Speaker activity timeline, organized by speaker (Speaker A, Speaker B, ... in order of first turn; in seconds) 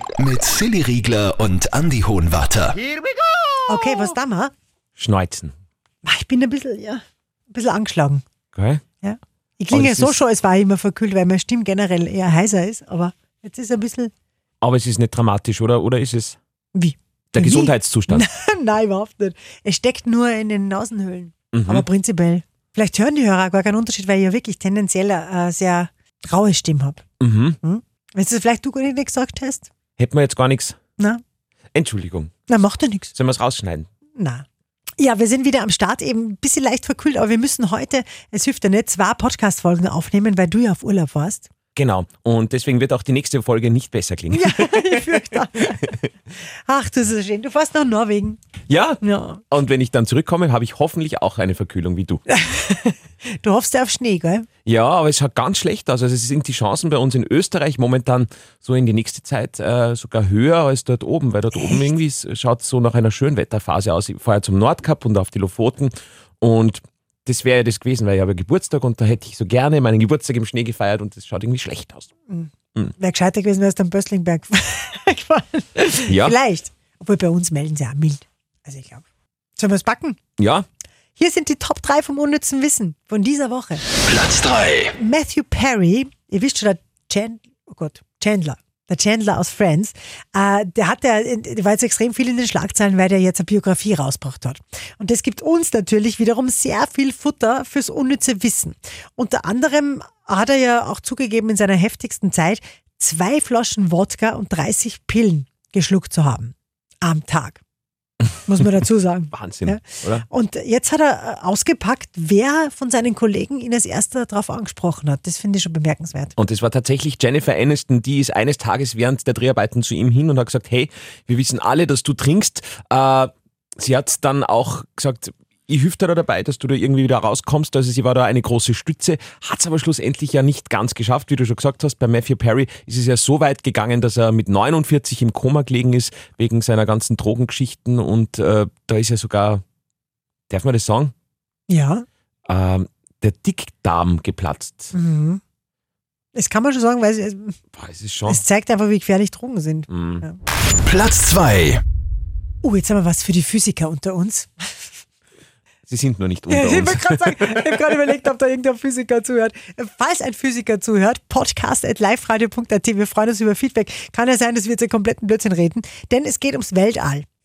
Speaker A: 0.2-2.8, 84.1-84.9, 150.8-151.8
Speaker B: 3.7-4.5, 6.0-8.2, 9.0-14.1, 16.7-27.0, 27.6-29.7, 32.5-33.1, 34.2-34.4, 35.0-41.5, 44.3-45.9, 46.7-48.4, 49.0-49.4, 52.3-54.5, 72.3-79.0, 79.6-80.2, 81.2-83.8, 84.9-107.6, 108.2-116.3, 141.7-142.1, 144.9-145.4, 146.3-147.6, 148.2-150.4, 152.6-155.0, 156.5-167.2
Speaker C: 5.0-5.5, 8.5-8.8, 9.7-10.2, 14.6-16.4, 17.3-18.3, 21.5-21.8, 27.2-27.6, 30.0-30.8, 31.7-32.3, 33.1-33.9, 41.7-45.7, 48.7-52.2, 54.6-72.1, 76.1-76.3, 80.4-80.7, 109.3-110.2, 116.4-139.6, 140.5-141.1, 142.5-144.9, 147.7-148.4, 149.9-150.2, 155.9-157.7